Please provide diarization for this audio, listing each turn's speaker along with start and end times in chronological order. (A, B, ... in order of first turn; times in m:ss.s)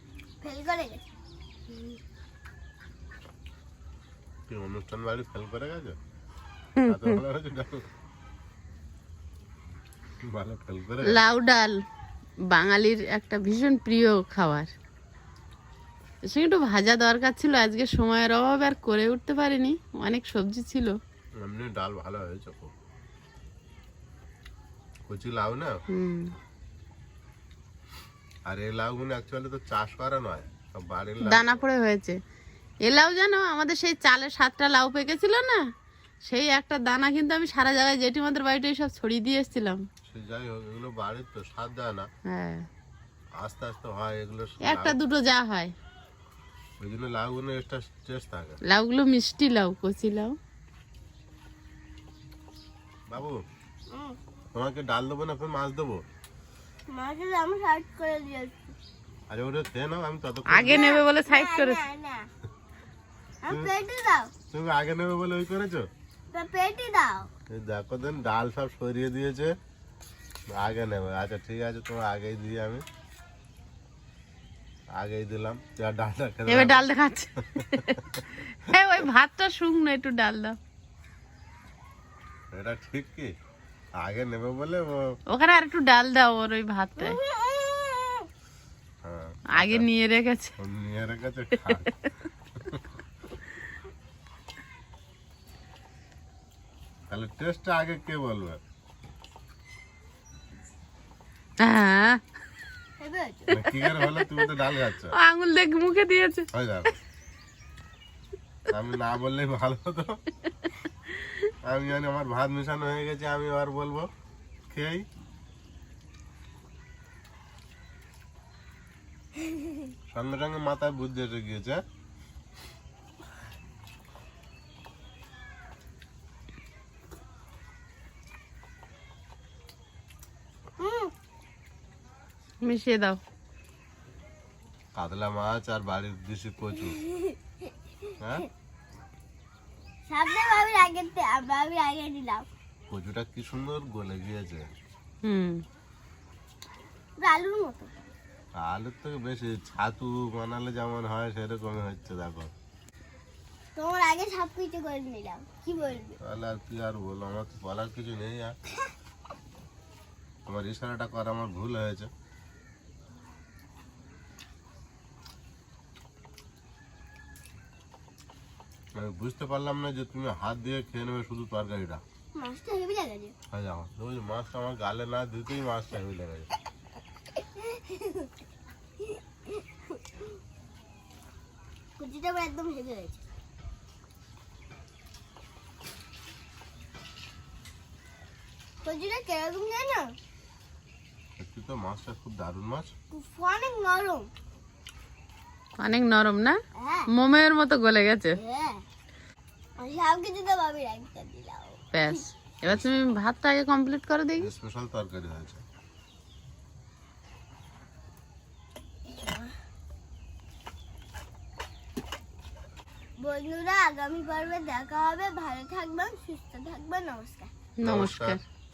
0:00.4-0:01.0 A
0:04.5-0:06.0 B
0:06.8-0:07.2 C
0:06.8-0:07.8 B
0:10.3-0:11.2 B
0:11.1-0:11.8 C
0:12.5-0:14.7 C
0:16.2-0:21.0 C
0:21.4-0:22.7 B
0:25.1-0:25.8 B
0:25.9-0:26.3 C
0:28.5-0:31.6 B
0:31.2-0:32.2 C
0:32.8-0:35.6 C
0:36.2-0:39.8 C
0:40.0-0:42.0 B
0:42.3-0:42.6 C
0:43.4-0:45.0 B
0:44.6-0:45.7 C
0:46.8-0:48.6 B
0:48.7-0:50.4 C
0:53.1-0:53.4 B
0:53.9-0:54.2 A
0:54.5-0:56.0 B
0:56.9-0:58.6 A
0:59.3-1:00.8 B
1:00.5-1:01.8 C
1:00.6-1:02.3 A
1:03.4-1:04.3 A
1:04.5-1:05.8 B
1:06.3-1:07.3 A
1:07.5-1:09.5 B
1:10.5-1:12.8 B
1:15.0-1:16.8 B
1:16.5-1:20.6 C
1:17.6-1:18.2 B
1:22.5-1:23.3 B
1:24.0-1:25.0 B
1:25.3-1:27.2 C
1:27.0-1:28.3 A
1:29.0-1:29.8 B
1:29.5-1:30.5 C
1:30.6-1:31.9 B
1:37.1-1:38.6 B
1:41.6-1:42.2 C
1:43.0-1:43.5 A
1:43.5-1:45.1 B
1:43.5-1:44.5 C
1:45.1-1:46.4 C
1:46.5-1:46.9 B
1:48.7-1:50.2 B
1:50.8-1:51.4 C
1:51.6-1:54.1 B
1:54.7-1:55.0 B
2:00.1-2:01.8 B
2:10.8-2:11.1 A
2:12.6-2:13.2 C
2:14.9-2:17.0 B
2:16.9-2:17.4 A
2:20.1-2:22.4 A
2:22.9-2:24.6 B
2:25.2-2:25.6 C
2:27.2-2:27.9 A
2:28.6-2:32.5 B
2:33.8-2:36.2 A
2:36.2-2:38.5 B
2:40.5-2:42.1 B
2:48.9-2:52.0 B
2:52.3-2:53.3 A
2:53.5-2:56.5 B
2:57.6-2:58.3 A
2:59.0-3:00.0 A
3:02.0-3:03.2 A
3:08.8-3:10.2 A
3:11.4-3:12.9 B
3:13.1-3:14.3 A
3:15.8-3:16.6 C
3:16.8-3:17.1 A
3:17.1-3:18.4 C
3:18.3-3:18.8 A
3:19.8-3:22.2 A
3:21.9-3:24.5 C
3:24.4-3:25.6 B
3:29.2-3:29.5 A
3:33.2-3:37.5 A
3:37.8-3:38.4 C
3:37.8-3:38.4 B